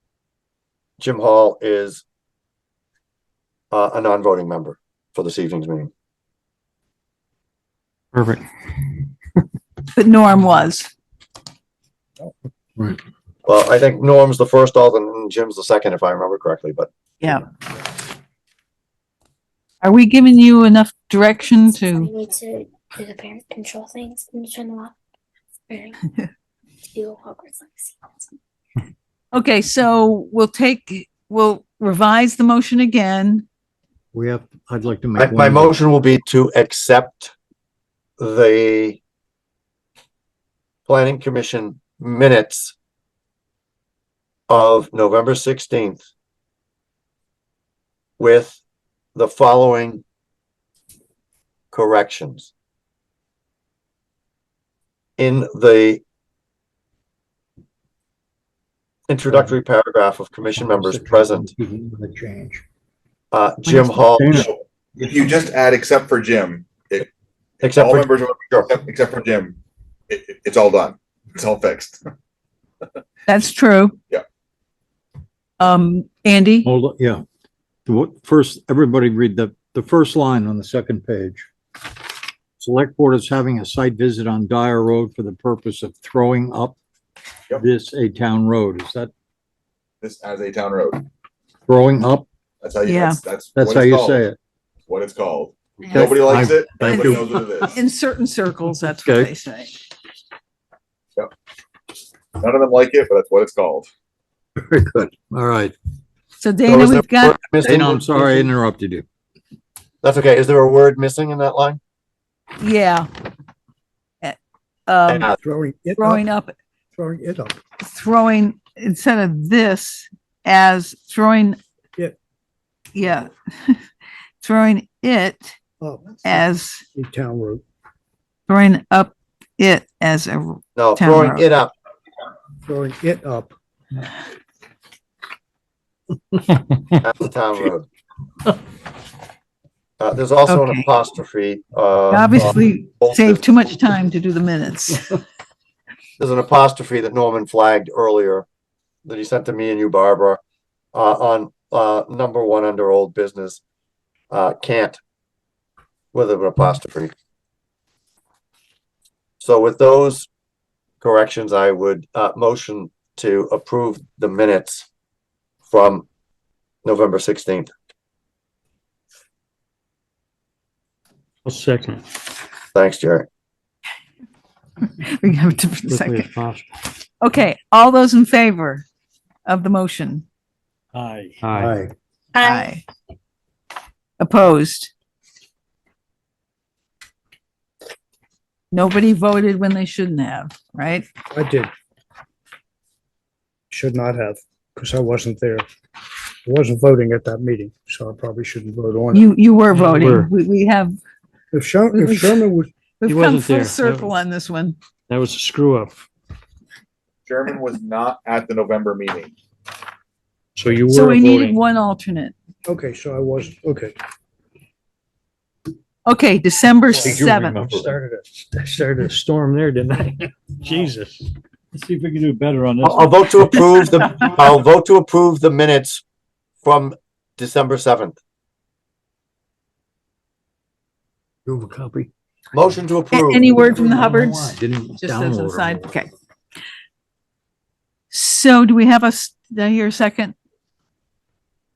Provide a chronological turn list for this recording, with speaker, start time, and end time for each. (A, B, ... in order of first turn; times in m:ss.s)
0:01.0-0:02.0 A
0:03.7-0:05.9 A
0:08.2-0:08.4 B
0:09.9-0:10.9 C
0:13.5-0:16.9 A
0:19.8-0:22.1 C
0:22.0-0:25.0 D
0:25.7-0:26.0 D
0:26.8-0:28.3 D
0:29.3-0:33.4 C
0:34.1-0:35.8 E
0:35.2-0:37.3 A
0:38.2-0:39.0 A
0:40.9-0:42.8 A
0:44.5-0:46.0 A
0:48.2-0:48.6 A
0:49.2-0:50.0 A
0:51.7-0:52.5 A
0:55.2-0:56.0 A
0:59.1-1:01.5 A
0:59.3-0:59.6 E
1:00.6-1:02.6 E
1:03.3-1:04.5 A
1:03.7-1:04.5 E
1:04.4-1:07.1 F
1:07.6-1:08.7 A
1:07.6-1:09.6 F
1:10.1-1:12.0 F
1:13.3-1:14.0 C
1:15.6-1:16.7 C
1:16.6-1:17.2 E
1:17.9-1:21.5 E
1:22.6-1:26.8 E
1:27.5-1:29.1 E
1:30.0-1:31.0 F
1:31.7-1:32.3 E
1:32.6-1:34.2 F
1:32.8-1:33.2 C
1:33.6-1:34.4 E
1:34.9-1:37.8 F
1:35.8-1:36.2 C
1:35.9-1:37.7 E
1:37.7-1:39.7 C
1:38.9-1:39.3 E
1:42.4-1:43.9 F
1:44.6-1:45.7 E
1:46.4-1:47.4 C
1:46.7-1:48.5 A
1:47.6-1:49.0 E
1:50.0-1:51.8 A
1:52.6-1:53.1 C
1:54.2-1:55.3 C
1:55.1-1:55.4 A
1:55.4-1:56.2 G
1:56.0-1:56.6 C
1:57.0-1:57.6 G
1:57.8-2:01.6 C
2:03.0-2:03.8 C
2:04.4-2:05.6 C
2:05.8-2:07.6 G
2:06.2-2:06.8 C
2:08.5-2:11.4 C
2:10.8-2:11.7 A
2:12.6-2:13.5 G
2:16.9-2:17.9 A
2:20.0-2:23.4 A
2:20.5-2:20.9 C
2:22.1-2:25.2 C
2:26.2-2:28.5 A
2:29.0-2:30.4 A
2:30.9-2:33.6 A
2:34.3-2:35.0 A
2:36.1-2:37.1 A
2:39.4-2:40.3 A
2:41.0-2:44.9 A
2:45.7-2:46.1 A
2:46.8-2:47.7 A
2:51.5-2:52.0 B
2:52.7-2:53.3 A
2:54.8-2:56.3 C
2:55.9-2:56.7 B
2:57.2-2:58.8 C
2:59.5-3:00.2 C
3:01.0-3:01.8 B
3:01.5-3:01.9 E
3:02.4-3:02.8 C
3:02.4-3:02.7 D
3:04.2-3:04.9 C
3:08.7-3:11.1 C
3:11.3-3:11.7 G
3:13.7-3:15.6 G
3:16.5-3:19.3 G
3:19.1-3:21.0 C
3:19.7-3:20.3 B
3:21.5-3:22.7 G
3:21.9-3:22.5 C
3:23.0-3:24.8 C
3:23.1-3:24.1 B
3:25.1-3:26.0 B
3:27.3-3:29.3 F
3:30.6-3:31.6 B
3:30.9-3:32.3 C
3:32.7-3:34.0 G
3:36.1-3:37.6 C
3:36.9-3:39.1 G
3:37.0-3:38.0 E
3:37.3-3:37.6 B
3:39.0-3:43.6 B
3:42.8-3:46.0 A
3:46.6-3:48.2 A
3:51.5-3:52.1 E
3:52.5-3:54.1 A
3:53.1-3:56.1 C
3:53.7-3:55.9 E
3:58.1-4:00.3 C